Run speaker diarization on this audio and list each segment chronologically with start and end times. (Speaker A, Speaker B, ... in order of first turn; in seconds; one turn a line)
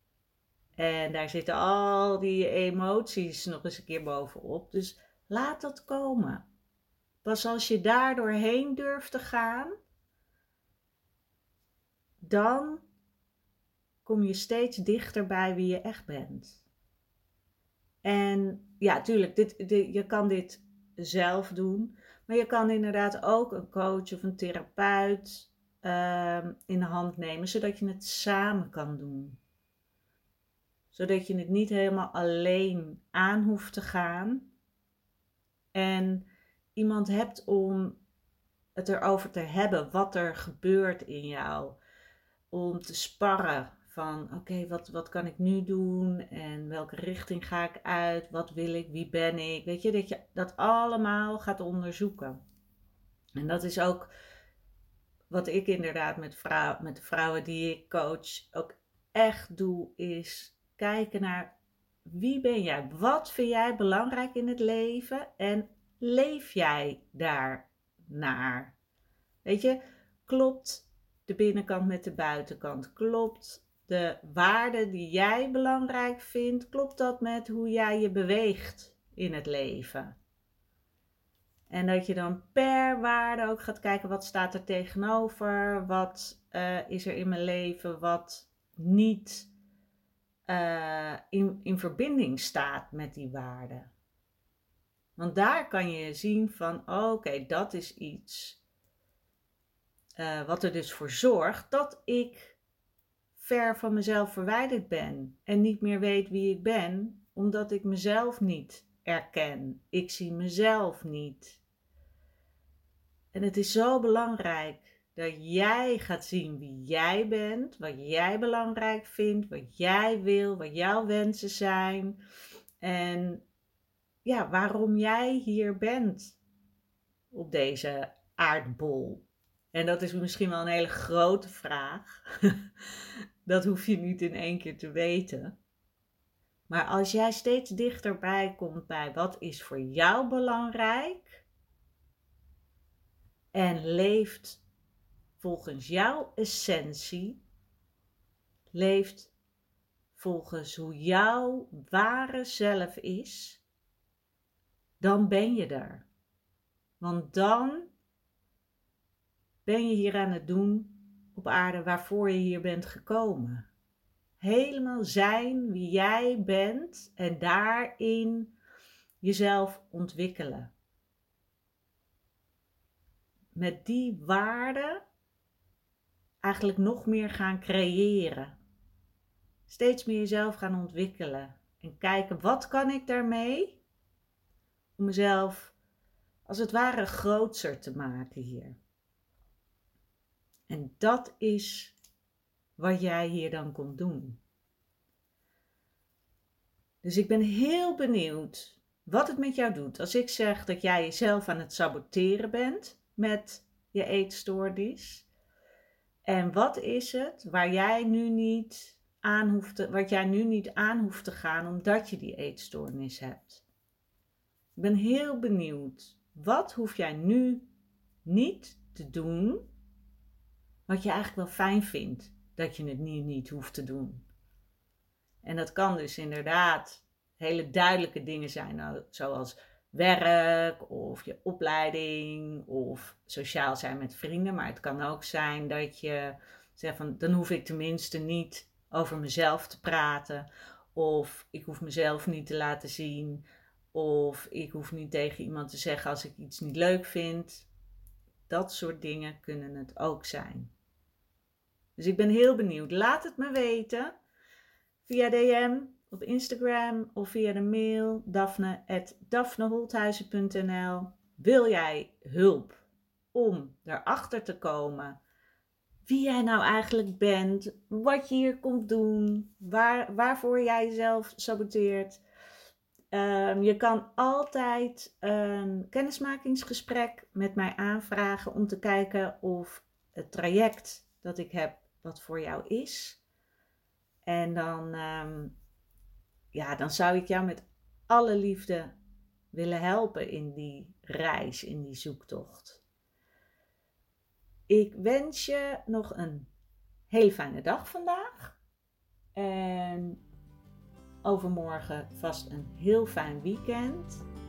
Speaker A: 0.8-6.5
Speaker A: 7.2-9.7
Speaker A: 12.2-12.8
Speaker A: 14.0-16.6
Speaker A: 18.0-29.4
Speaker A: 30.9-34.5
Speaker A: 35.7-38.0
Speaker A: 38.8-41.8
Speaker A: 42.5-52.4
Speaker A: 53.4-54.1
Speaker A: 55.3-61.5
Speaker A: 62.0-68.7
Speaker A: 69.4-80.1
Speaker A: 81.7-89.5
Speaker A: 90.5-93.9
Speaker A: 95.2-98.6
Speaker A: 100.2-102.6
Speaker A: 103.3-111.6
Speaker A: 113.3-122.2
Speaker A: 122.8-123.4
Speaker A: 124.2-126.4
Speaker A: 127.3-132.6
Speaker A: 133.4-135.6
Speaker A: 136.7-141.4
Speaker A: 143.5-144.6
Speaker A: 145.4-147.4
Speaker A: 148.7-149.3
Speaker A: 150.1-153.6
Speaker A: 155.0-156.1
Speaker A: 157.0-157.9
Speaker A: 159.6-163.7
Speaker A: 164.4-168.5
Speaker A: 169.2-170.7
Speaker A: 173.5-175.0
Speaker A: 176.4-178.6
Speaker A: 179.7-183.8
Speaker A: 185.0-185.7
Speaker A: 186.4-188.8
Speaker A: 190.7-191.9
Speaker A: 192.8-194.4
Speaker A: 197.0-205.3
Speaker A: 206.2-213.6
Speaker A: 214.8-217.7
Speaker A: 218.2-219.7
Speaker A: 220.9-224.3
Speaker A: 225.4-247.7
Speaker A: 248.5-250.7
Speaker A: 252.0-254.1
Speaker A: 255.0-265.2
Speaker A: 266.1-272.2
Speaker A: 273.1-283.2
Speaker A: 284.2-285.5
Speaker A: 286.5-288.9
Speaker A: 289.5-292.8
Speaker A: 294.7-296.5
Speaker A: 297.1-298.6
Speaker A: 299.3-300.2
Speaker A: 301.2-304.2